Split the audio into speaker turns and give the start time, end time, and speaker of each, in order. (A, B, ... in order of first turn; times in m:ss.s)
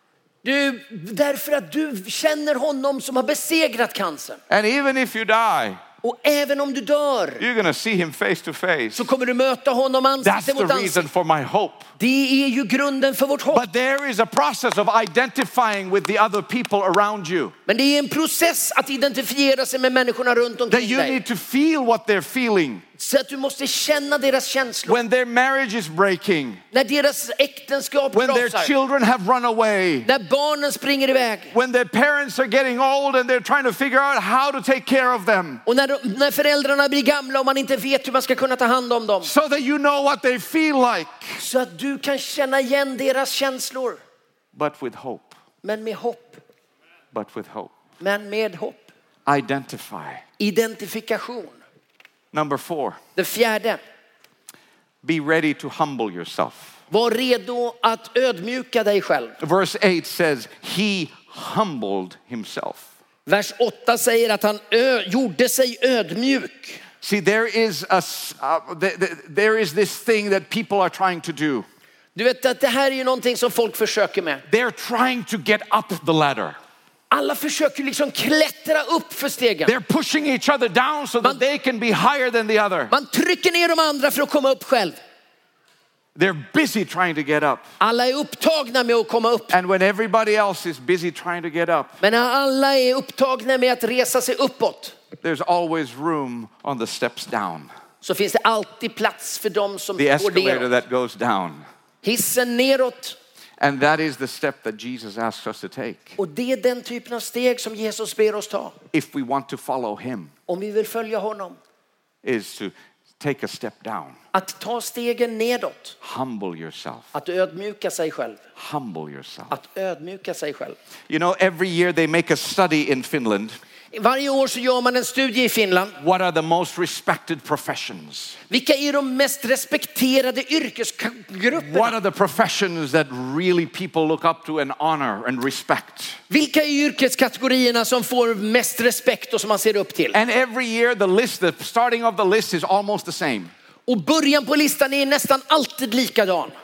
0:00.4-0:04.4 A
0:04.5-0:05.8 B
0:06.0-0:07.4 A
0:07.4-0:09.1 B
0:08.9-0:11.0 A
0:10.2-0:11.9 B
0:12.0-0:13.6 A
0:13.5-0:17.5 B
0:17.7-0:21.2 A
0:20.7-0:22.8 B
0:23.0-0:25.0 A
0:24.9-0:26.6 B
0:26.7-0:28.7 A
0:28.1-0:30.1 B
0:30.0-0:31.5 A
0:31.5-0:35.6 B
0:35.6-0:39.3 A
0:39.2-0:41.4 B
0:41.4-0:44.0 A
0:44.5-0:45.4 B
0:45.6-0:46.4 A
0:47.1-0:47.7 B
0:48.0-0:48.9 A
0:49.3-0:50.2 B
0:50.4-0:51.6 A
0:52.3-0:53.0 B
0:53.2-0:53.8 A
0:55.0-0:56.8 B
0:56.9-0:59.4 A
0:59.4-1:02.9 B
1:03.2-1:06.8 A
1:07.0-1:11.7 B
1:12.1-1:14.4 A
1:14.5-1:16.6 B
1:17.1-1:19.7 A
1:19.6-1:22.9 B
1:22.9-1:25.0 A
1:26.2-1:27.7 B
1:27.8-1:29.6 A
1:29.5-1:32.0 B
1:32.0-1:35.0 A
1:35.2-1:37.7 B
1:38.0-1:40.7 A
1:40.0-1:41.6 B
1:42.0-1:43.2 A
1:43.6-1:46.2 B
1:46.2-1:48.8 A
1:48.9-1:50.3 B
1:50.5-1:51.6 A
1:52.2-1:54.2 B
1:54.3-1:55.9 A
1:56.0-1:57.1 B
1:57.1-1:58.4 A
1:58.6-1:59.5 B
1:59.5-2:00.8 A
2:01.1-2:03.6 B
2:03.9-2:06.0 A
2:06.0-2:08.4 B
2:08.5-2:12.0 A
2:11.5-2:16.2 B
2:16.3-2:20.2 A
2:20.1-2:23.5 B
2:23.9-2:26.5 A